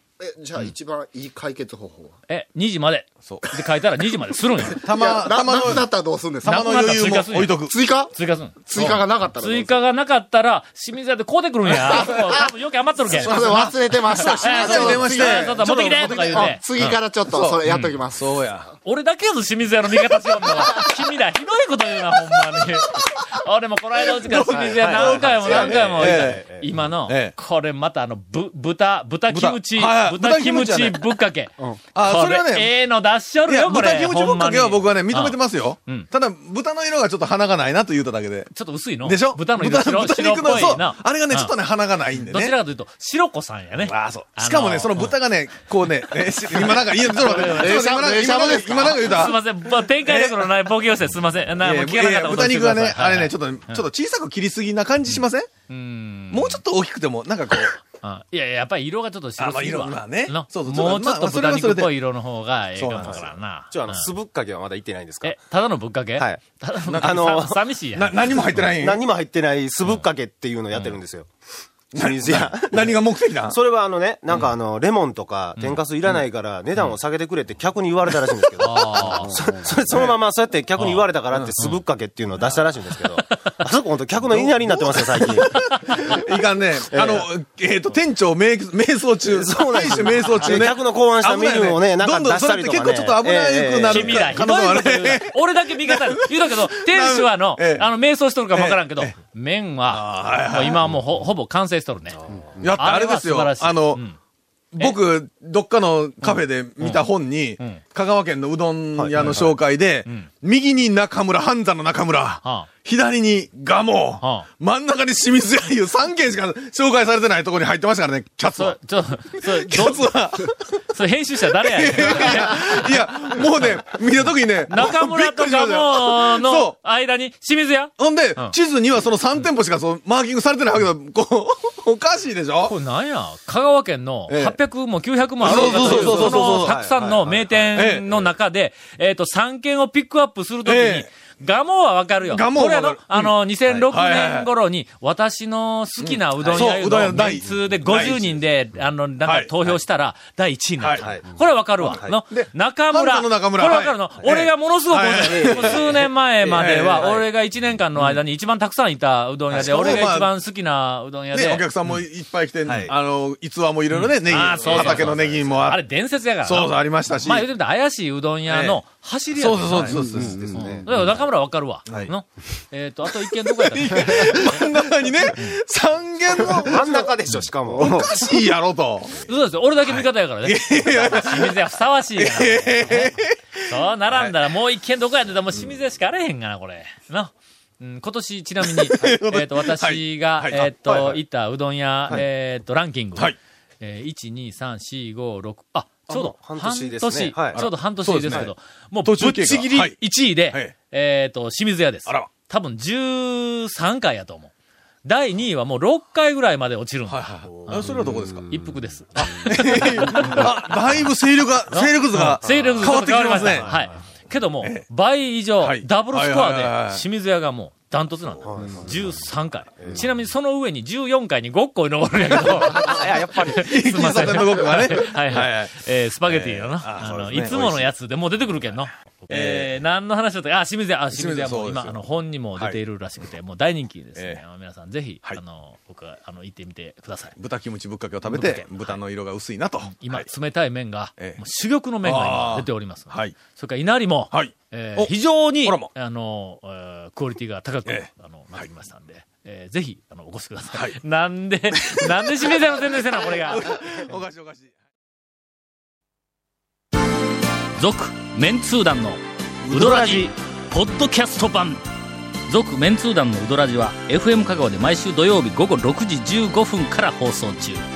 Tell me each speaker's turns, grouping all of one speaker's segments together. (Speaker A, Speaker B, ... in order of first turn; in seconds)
Speaker A: 0.2-2.2, 4.7-6.8, 7.7-8.1, 8.6-9.8, 11.9-12.4, 13.1-18.3, 47.5-49.1, 79.1-79.6, 169.9-170.9
Speaker B: 2.3-4.8, 6.5-17.0, 17.7-17.9, 18.9-36.1, 38.5-41.5, 42.3-45.2, 46.1-48.0, 48.7-53.9, 55.1-56.6, 57.5-64.1, 65.2-68.6, 75.6-75.8, 78.6-79.4, 80.8-81.1, 85.5-86.2, 93.9-102.2, 102.8-104.2, 106.2-107.1, 109.2-109.5, 110.0-110.3, 112.4-112.7, 114.2-114.5, 118.5-120.1, 120.9-123.9, 124.7-128.6, 132.7-161.7, 163.9-170.0, 170.5-174.7, 175.3-175.6, 179.3-193.3, 193.8-204.5, 205.0-210.8, 211.7-237.4, 238.2-239.0, 239.9-253.8, 257.8-261.8, 262.5-267.8
Speaker C: 3.2-3.5, 4.7-5.8, 6.4-7.8, 8.8-9.0, 13.1-16.6, 17.3-18.7, 20.6-20.9, 22.4-23.1, 24.1-26.5, 27.1-27.4, 29.3-31.2, 31.9-32.8, 33.5-42.6, 43.8-50.5, 51.6-55.5, 56.3-57.8, 59.4-61.9, 62.8-63.4, 66.9-67.4, 67.9-69.0, 71.9-73.6, 79.9-80.2, 81.3-81.6, 84.3-97.9, 98.5-99.2, 99.9-101.0, 102.6-104.0, 104.7-118.8, 119.3-120.8, 121.6-126.8, 128.0-132.8, 134.3-134.6, 135.4-136.8, 137.8-138.3, 140.7-141.1, 142.3-143.3, 143.9-144.5, 146.0-148.4, 149.2-149.5, 150.8-151.1, 151.8-157.2, 159.5-160.3, 161.3-165.8, 166.4-167.5, 168.5-168.8, 169.3-170.5, 173.1-177.1, 177.7-179.3, 179.8-184.4, 188.6-190.7, 197.5-198.5, 199.0-200.8, 207.1-208.7, 209.2-213.8, 215.6-217.0, 218.4-218.6, 223.4-227.9, 229.3-229.7, 231.1-232.0, 234.2-234.4, 237.4-240.3, 241.2-241.4, 242.0-243.4, 244.3-245.9, 247.9-248.7, 251.7-254.7
Speaker D: 24.7-26.7, 63.7-65.4, 67.0-67.6, 68.6-71.3, 71.9-73.0, 73.5-86.2, 86.9-87.3, 89.2-94.4, 102.3-102.6, 109.0-109.4, 135.4-137.8, 146.4-146.7, 151.0-151.3, 151.9-152.2, 155.3-157.2, 159.5-160.0, 162.7-162.9, 164.4-165.6, 170.3-171.1, 176.4-178.4, 190.9-191.2, 196.1-197.6, 212.4-212.9, 218.4-219.0, 222.7-223.7, 259.7-260.3